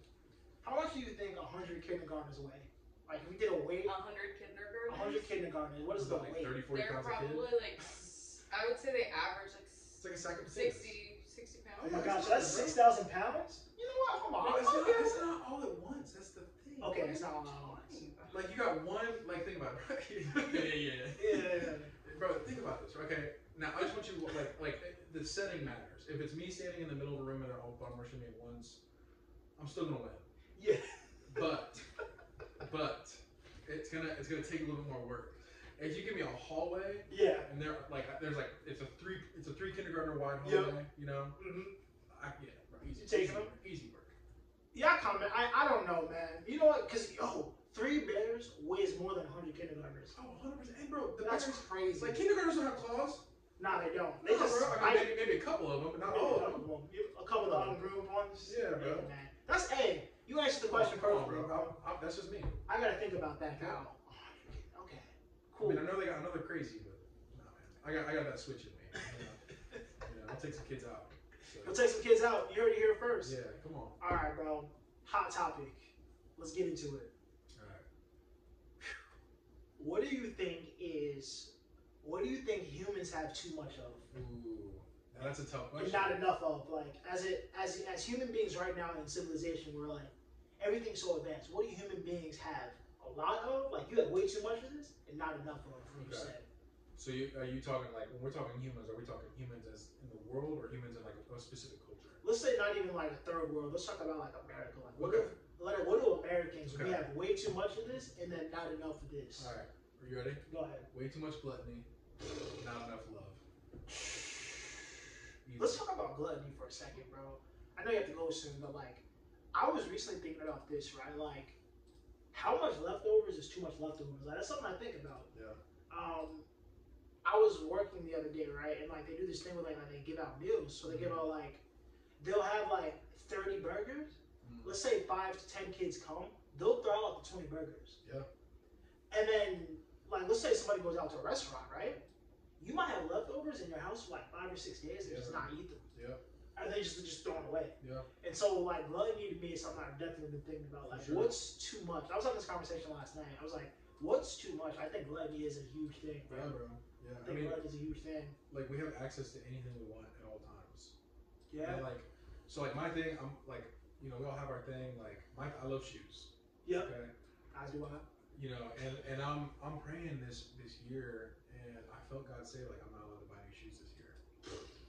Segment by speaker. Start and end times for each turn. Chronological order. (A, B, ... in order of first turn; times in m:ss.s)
0:00.6-0:03.9 A
0:03.8-0:05.3 B
0:04.9-0:06.6 A
0:06.0-0:07.5 C
0:06.7-0:12.7 B
0:10.0-0:11.0 C
0:11.8-0:12.9 C
0:11.8-0:15.3 A
0:14.4-0:17.1 C
0:16.8-0:18.0 A
0:17.0-0:18.4 B
0:18.3-0:28.8 C
0:20.5-0:21.9 A
0:29.6-0:30.3 C
0:30.6-0:31.0 A
0:31.3-0:31.8 C
0:32.6-0:41.4 C
0:37.1-0:37.5 A
0:40.4-0:40.8 A
0:41.4-0:41.7 A
0:42.1-0:44.1 C
0:43.0-0:43.5 A
0:44.7-0:50.2 A
0:50.1-0:53.2 C
0:51.2-0:52.2 A
0:53.6-0:55.2 A
0:54.2-0:56.7 C
0:56.0-1:01.8 A
0:57.4-0:57.8 C
0:58.4-0:59.1 C
1:00.7-1:02.6 C
1:02.7-1:05.9 A
1:03.6-1:03.8 C
1:05.6-1:09.4 C
1:10.0-1:11.8 C
1:11.6-1:13.4 A
1:13.2-1:14.0 C
1:14.0-1:17.1 A
1:17.5-1:17.8 C
1:19.8-1:24.1 A
1:24.1-1:26.3 C
1:25.8-1:36.4 A
1:36.0-1:36.3 C
1:37.0-1:42.2 C
1:42.2-1:49.5 A
1:45.0-1:45.3 C
1:46.7-1:47.0 C
1:49.4-1:51.9 C
1:50.5-1:50.9 A
1:52.6-1:53.4 C
1:55.4-1:55.8 C
1:55.6-2:01.6 A
2:02.3-2:05.3 A
2:05.3-2:05.6 C
2:05.9-2:06.5 A
2:07.2-2:11.6 A
2:10.9-2:11.2 C
2:12.2-2:18.0 A
2:14.4-2:14.8 C
2:19.1-2:22.0 A
2:22.6-2:25.8 A
2:25.0-2:26.2 C
2:26.6-2:36.6 A
2:27.8-2:28.1 C
2:30.9-2:31.4 C
2:36.3-2:37.6 C
2:37.2-2:38.4 A
2:38.5-2:40.9 C
2:41.5-2:41.8 A
2:41.6-2:47.1 C
2:46.6-2:46.9 A
2:47.5-2:48.0 A
2:48.3-2:54.2 C